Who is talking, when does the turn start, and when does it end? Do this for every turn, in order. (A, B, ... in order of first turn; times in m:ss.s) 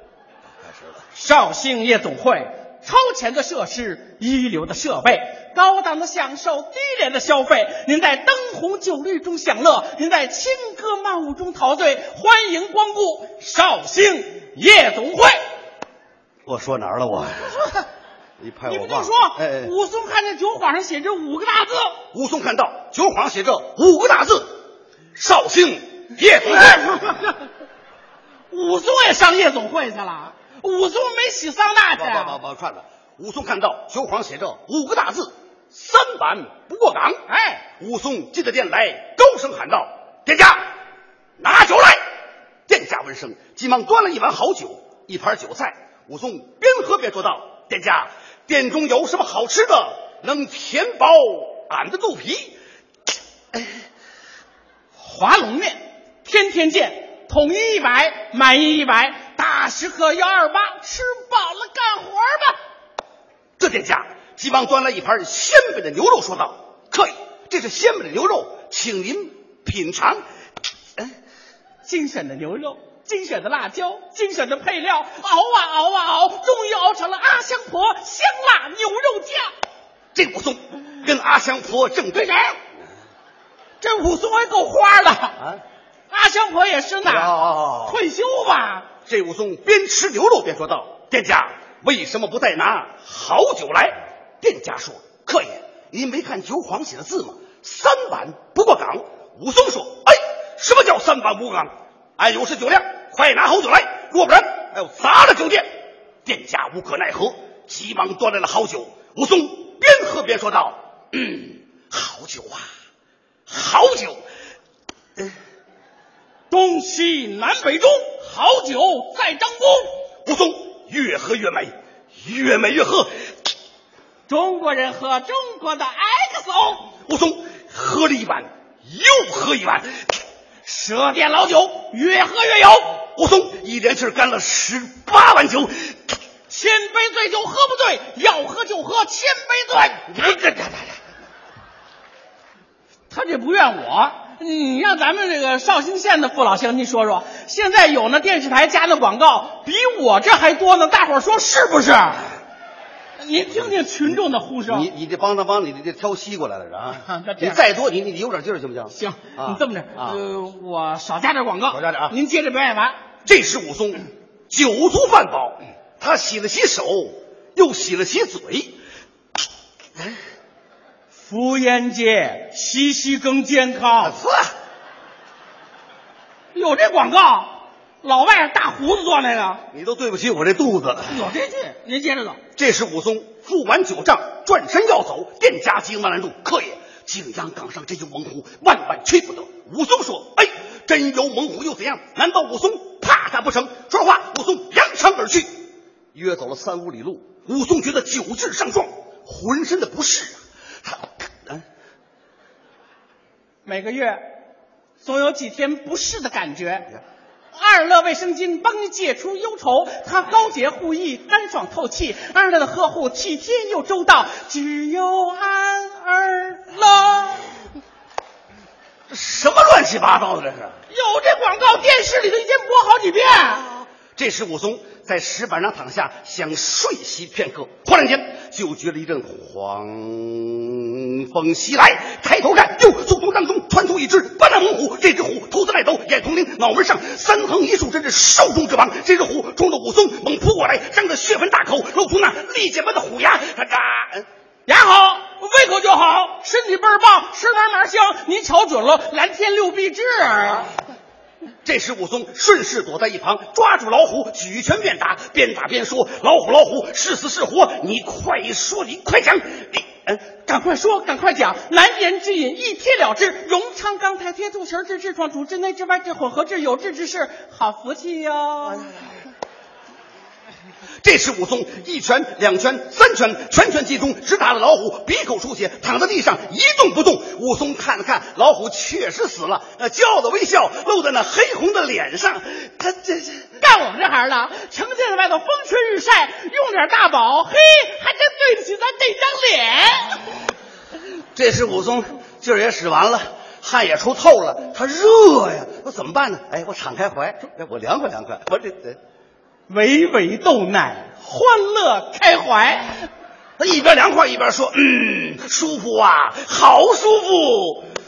0:00.6-0:01.0 A
0:01.1-0:15.4 B
0:16.4-0:17.5 A
0:18.4-0:19.7 A
0:18.6-0:22.0 B
0:22.1-0:24.5 A
0:25.1-0:27.0 A
0:26.5-0:27.4 B
0:28.5-0:32.4 B
0:31.9-0:37.2 A
0:37.3-0:37.6 B
0:37.8-0:40.7 A
0:41.4-0:42.0 A
0:42.7-0:52.6 A
0:55.0-1:02.6 B
1:03.6-1:10.2 A
1:11.8-1:19.5 B
1:20.1-1:22.6 A
1:23.8-1:25.4 B
1:26.1-1:27.3 B
1:27.0-1:28.0 A
1:27.9-1:28.9 B
1:29.0-1:45.7 A
1:46.2-1:52.7 A
1:53.5-1:54.2 A
1:56.5-1:59.9 B
2:00.2-2:03.1 A
2:04.3-2:06.9 B
2:07.1-2:10.2 A
2:10.6-2:13.0 B
2:13.1-2:16.1 A
2:16.5-2:20.4 B
2:20.1-2:21.0 A
2:23.1-2:32.2 B
2:33.2-2:34.9 B
2:33.5-2:40.2 A
2:37.0-2:37.6 B
2:38.9-2:43.0 B
2:41.7-2:42.1 A
2:43.2-2:48.8 A
2:51.2-2:54.2 B
2:54.0-2:54.5 A
2:56.5-2:59.6 B
2:59.7-3:01.2 A
3:01.1-3:02.4 B
3:02.6-3:15.5 A
3:16.1-3:21.6 A
3:23.6-3:24.3 B
3:25.0-3:26.9 B
3:27.5-3:37.6 B
3:39.1-3:40.8 A
3:40.9-3:43.6 B
3:43.6-4:04.2 A
4:04.6-4:10.7 B
4:11.6-4:20.4 A
4:20.4-4:28.9 B
4:28.6-4:29.1 A
4:31.0-4:43.5 A
4:43.6-4:50.4 B
4:51.3-4:59.0 A
4:59.7-5:03.1 B
5:03.6-5:07.9 A